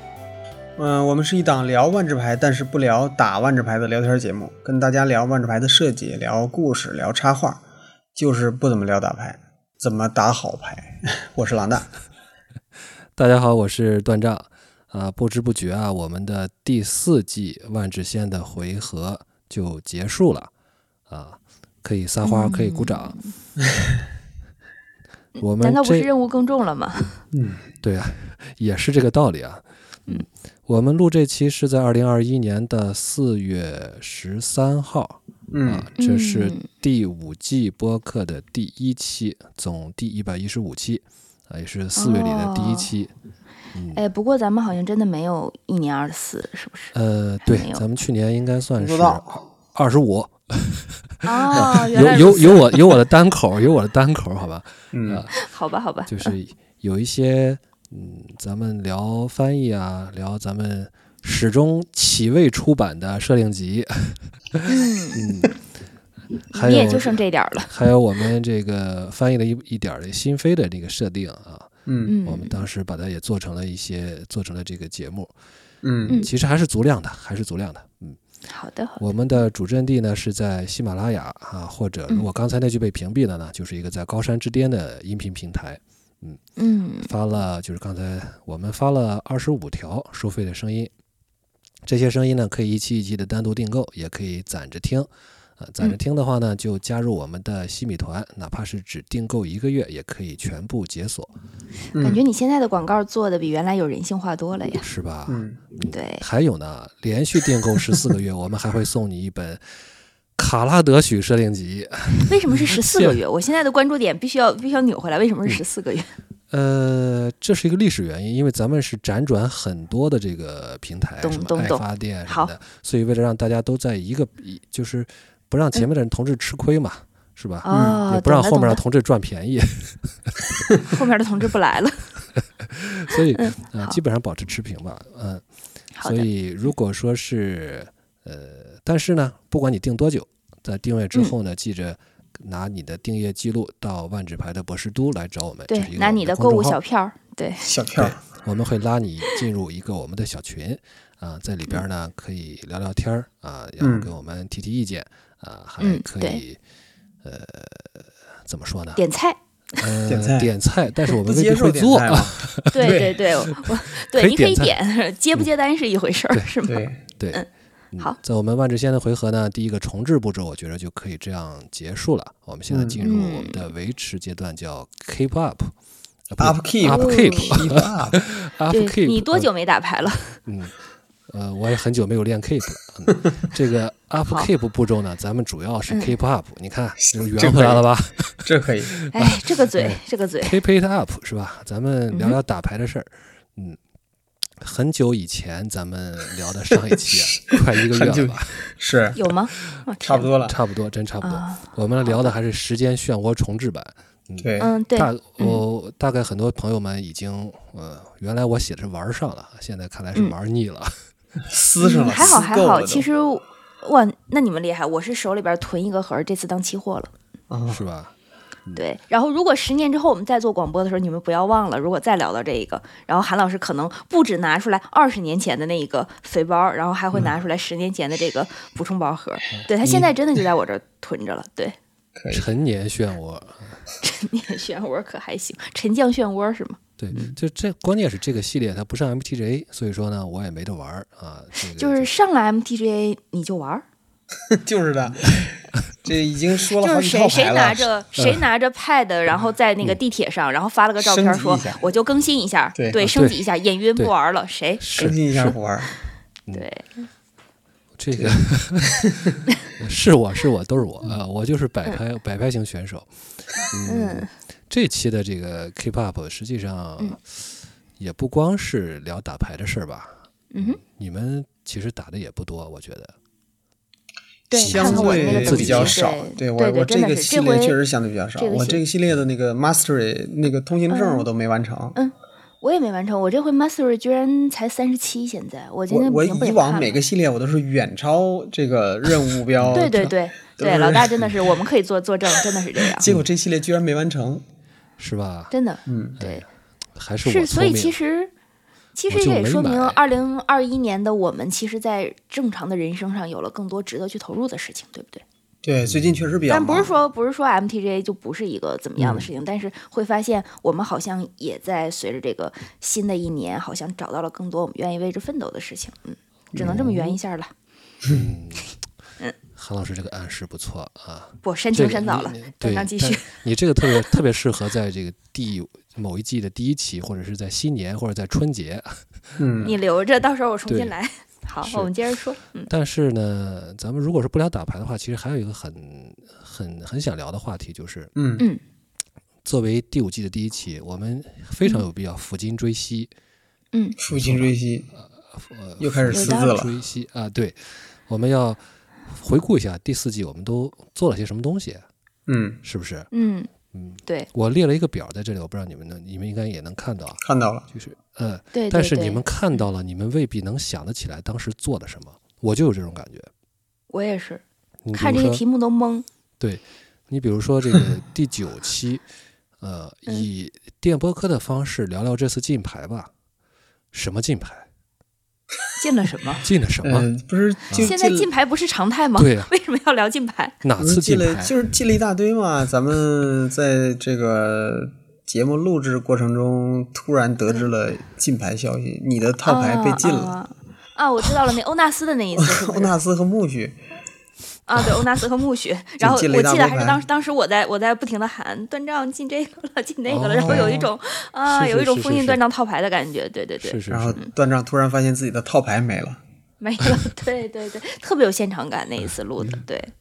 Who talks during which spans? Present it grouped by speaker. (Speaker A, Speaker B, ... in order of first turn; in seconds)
Speaker A: 0.8-7.6, 8.2-11.9, 27.3-27.6, 35.5-35.9, 48.8-49.4, 54.9-55.2, 71.8-72.1, 75.8-76.2, 101.9-102.2, 105.3-105.6, 127.7-128.0, 147.6-148.2, 153.8-154.1, 160.1-160.5, 161.2-163.2, 166.7-167.0, 172.7-173.0, 176.4-178.2, 187.0-187.8, 188.4-189.0, 196.9-199.2, 200.0-200.6, 204.4-204.7, 211.5-213.1, 217.5-217.8, 229.8-230.1, 232.2-232.5, 244.5-245.5, 246.0-248.0, 251.0-251.8, 252.7-253.0, 255.0-255.9, 258.9-259.2, 274.6-282.0, 285.9-291.4, 292.8-294.4, 295.9-296.2, 305.6-306.9, 309.0-309.3, 316.5-316.9, 329.4-329.8, 338.1-338.4, 344.0-344.9, 345.8-346.8, 352.3-352.6, 357.2-357.7, 376.8-378.3, 380.8-390.4, 392.4-393.8, 396.0-397.0, 400.4-400.9, 403.9-406.2
Speaker B: 13.1-20.5, 21.1-23.2, 25.4-26.1, 27.8-43.1, 43.7-44.0, 46.9-55.3, 56.1-65.6, 66.5-71.7, 72.2-75.3, 76.0-78.2, 79.0-86.4, 87.0-90.9, 91.8-101.3, 104.8-109.6, 110.3-113.2, 116.5-130.4, 132.6-135.4, 136.0-146.8, 147.9-156.6, 157.2-159.0, 159.8-164.8, 167.2-175.7, 176.3-179.5, 180.4-180.7, 181.3-188.5, 189.2-193.8, 194.6-198.6, 199.2-199.6, 200.4-210.9, 217.7-218.1, 232.3-233.8, 237.0-242.1, 248.2-248.4, 253.0-253.4, 254.8-255.5, 258.0-259.0, 259.8-263.1, 263.6-267.4, 268.0-273.1, 274.6-276.0, 289.6-290.0, 295.0-295.5, 296.2-298.0, 299.1-300.0, 305.9-306.1, 316.6-317.1, 318.1-318.7, 319.5-329.8, 330.7-330.9, 331.6-331.9, 332.7-338.1, 339.4-343.1, 344.1-351.8, 352.6-353.1, 353.7-357.2, 357.7-363.3, 364.8-365.4, 366.4-369.0, 369.6-373.1, 373.9-374.6, 376.4-377.1, 377.7-377.9, 379.2-379.5, 380.6-381.5, 400.1-400.9, 401.4-402.4, 403.6-404.2
Speaker C: 22.2-23.3, 25.4-27.2, 36.0-36.6, 42.0-42.9, 43.9-47.8, 51.2-52.8, 55.4-56.3, 64.7-65.3, 66.5-67.7, 72.0-72.6, 78.5-79.0, 86.6-87.1, 102.0-104.8, 105.9-106.2, 112.3-116.1, 121.2-122.5, 127.6-128.8, 130.8-132.1, 133.3-133.9, 135.9-136.3, 145.7-147.7, 155.8-156.4, 159.0-159.8, 162.7-167.5, 173.0-173.6, 176.8-177.6, 178.7-180.4, 185.9-186.1, 189.1-190.6, 192.1-192.4, 199.2-200.3, 201.2-202.3, 204.6-205.6, 211.8-217.1, 218.8-231.8, 234.0-236.8, 241.8-243.8, 246.7-255.2, 256.5-257.1, 263.9-264.3, 270.5-270.8, 274.5-277.8, 278.4-278.8, 280.9-281.3, 281.9-286.9, 289.7-293.1, 295.5-296.4, 297.2-298.3, 298.9-305.2, 306.5-317.5, 321.4-323.3, 323.8-324.1, 329.6-332.7, 346.1-346.5, 353.1-353.5, 358.5-359.6, 363.9-366.0, 375.8-376.5, 377.8-380.6, 389.4-392.9, 394.7-404.3, 406.6-409.9